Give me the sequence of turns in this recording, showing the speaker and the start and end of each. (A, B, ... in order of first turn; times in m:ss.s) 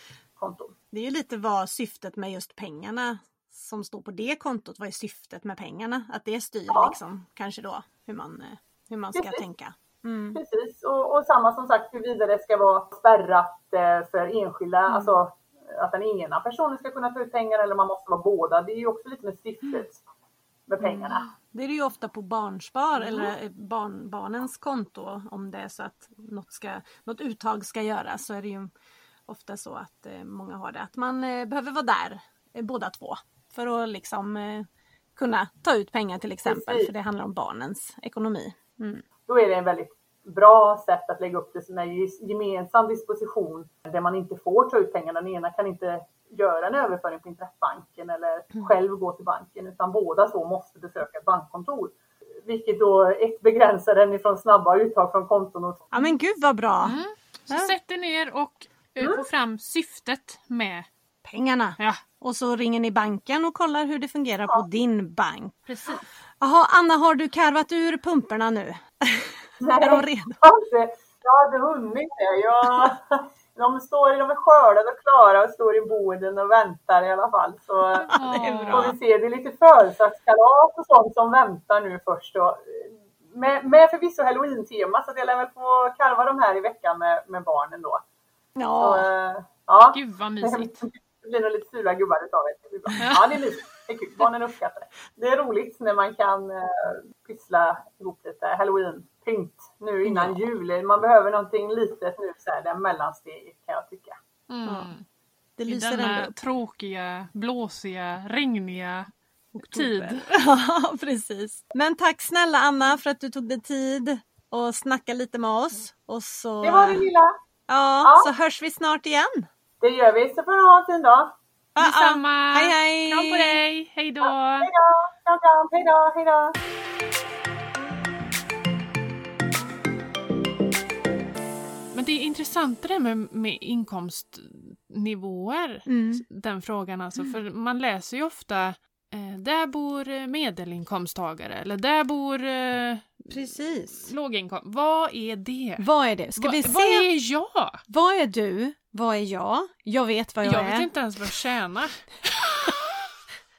0:00.4-0:00.8 A
0:00.9-0:10.4 B
0:06.7-0:07.0 A
0:09.1-0:09.4 A
0:10.3-0:20.0 A
0:14.9-0:15.2 B
0:20.7-0:21.3 A
0:20.8-0:28.7 B
0:29.3-0:39.0 B
0:36.4-0:36.9 A
0:39.3-0:56.1 A
0:55.9-0:57.0 B
0:56.8-1:00.9 C
1:01.2-1:05.6 B
1:05.7-1:06.0 C
1:06.4-1:10.4 B
1:09.6-1:28.0 A
1:18.1-1:18.9 C
1:18.1-1:19.0 B
1:28.6-1:29.1 B
1:28.8-1:44.2 A
1:29.9-1:30.8 C
1:33.0-1:33.4 C
1:40.0-1:40.4 B
1:44.5-1:45.0 C
1:44.7-1:44.9 B
1:45.6-1:46.3 B
1:45.7-1:50.3 C
1:49.6-1:57.1 B
1:56.6-1:57.3 A
1:57.7-1:59.5 B
1:58.0-1:58.3 A
1:59.8-2:01.4 A
2:01.8-2:03.6 B
2:01.8-2:04.7 C
2:04.6-2:06.6 A
2:11.9-2:27.8 C
2:15.9-2:16.2 B
2:23.3-2:24.1 B
2:25.8-2:27.1 B
2:27.9-2:30.9 B
2:30.4-2:32.0 C